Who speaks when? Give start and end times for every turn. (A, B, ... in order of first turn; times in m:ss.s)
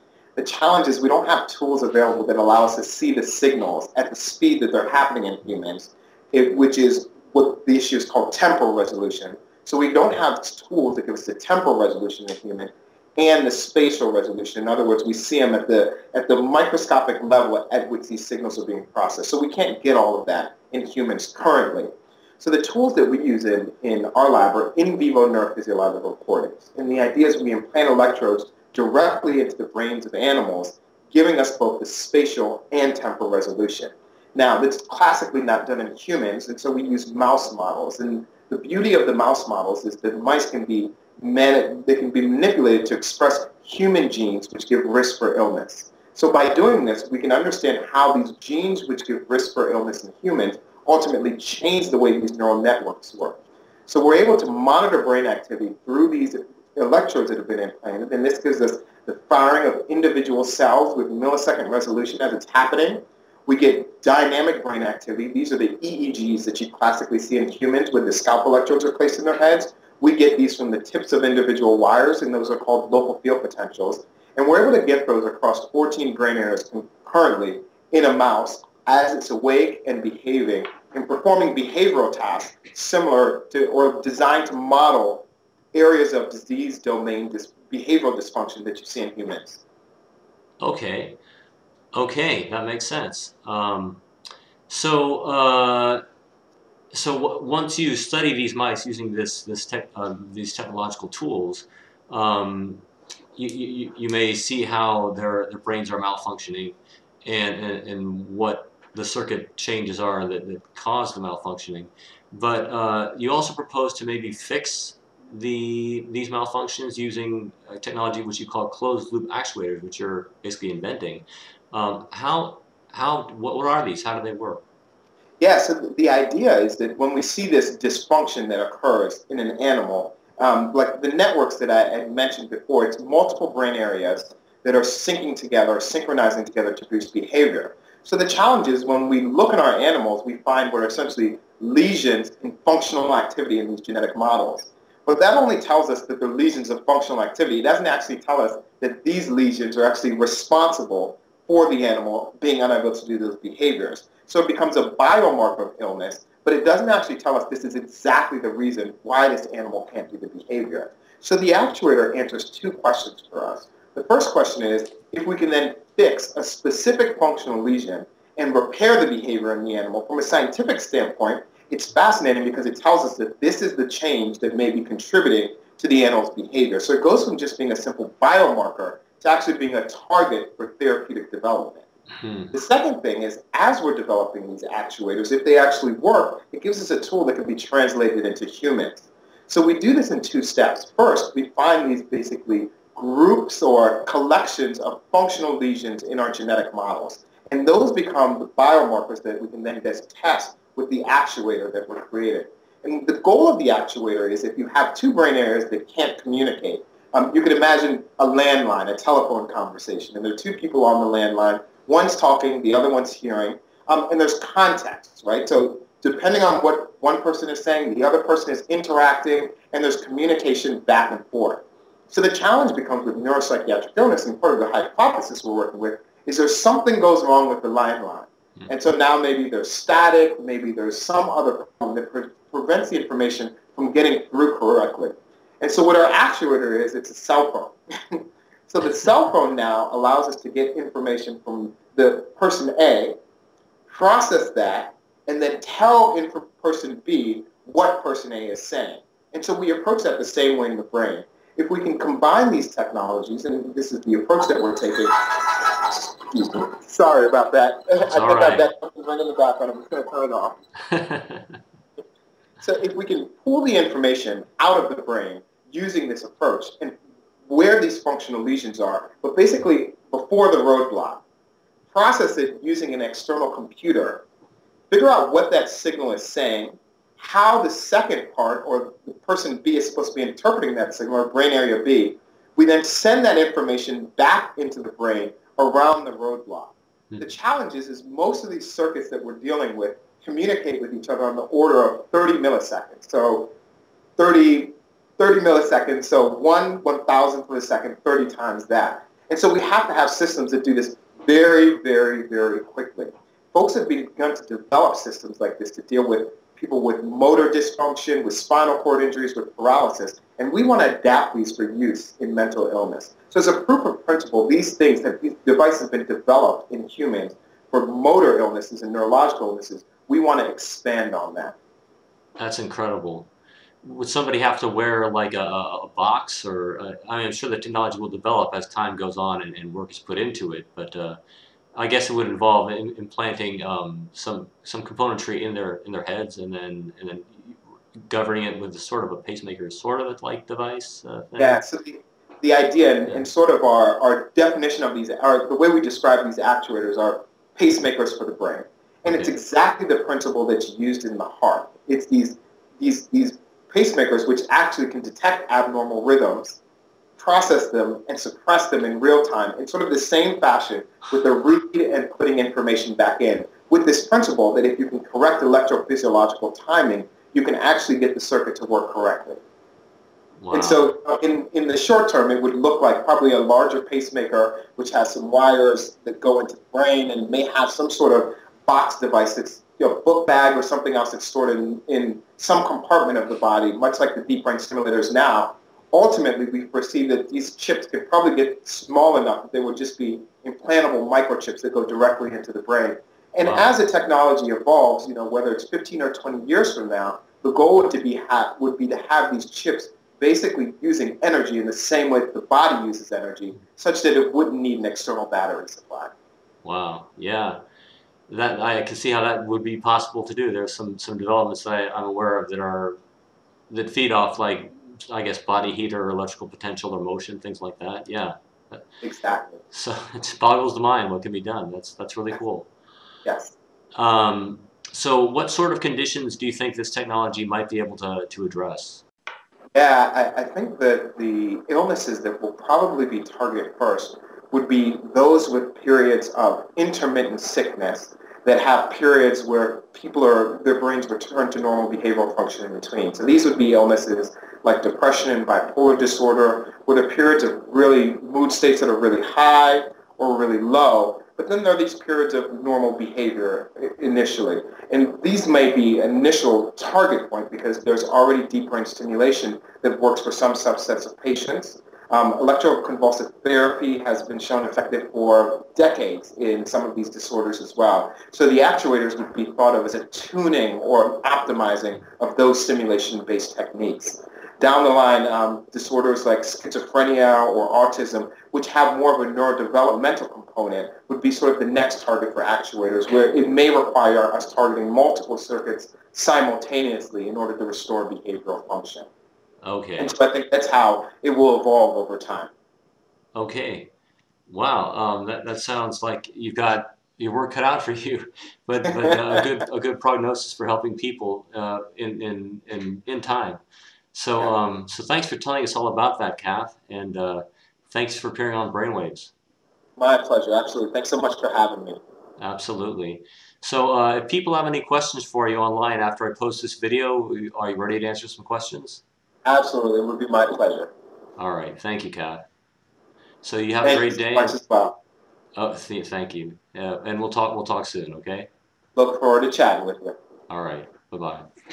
0:00.4-1:29.6 A
1:30.6-1:31.2 B
1:31.9-1:34.0 B
1:34.7-1:36.0 B
1:36.9-1:42.8 B
1:43.4-2:04.6 B
2:05.4-3:01.8 A
3:02.2-3:02.5 B
3:02.5-4:03.1 A
4:03.9-4:20.6 A
4:18.0-4:18.7 B
4:20.9-4:21.6 B
4:22.6-4:27.0 A
4:27.5-4:31.2 A
4:31.9-4:34.2 A
4:34.9-4:53.5 A
4:54.2-5:21.6 A
5:22.4-5:23.3 B
5:23.8-5:31.2 B
5:31.7-5:41.6 B
5:41.4-5:56.6 A
5:49.0-5:49.3 B
5:57.2-6:09.4 A
6:10.4-6:10.9 B
6:10.5-6:46.1 A
6:33.4-6:33.7 B
6:46.6-6:47.6 B
6:48.3-6:53.0 B
6:53.7-6:58.8 B
6:59.0-6:59.6 A
6:59.7-7:02.7 B
7:03.2-7:03.5 A
7:04.0-7:09.0 B
7:09.7-8:09.1 A
8:09.6-8:10.1 B
8:10.0-8:12.5 A
8:13.3-8:13.9 B
8:14.5-8:23.6 B
8:24.1-8:29.3 B
8:30.0-8:32.0 A
8:32.4-8:39.0 B
8:39.4-8:40.9 A
8:41.4-8:42.4 B
8:43.4-8:44.6 B
8:43.8-8:45.0 A
8:45.6-8:48.5 B
8:49.0-8:50.2 A
8:50.5-8:51.5 B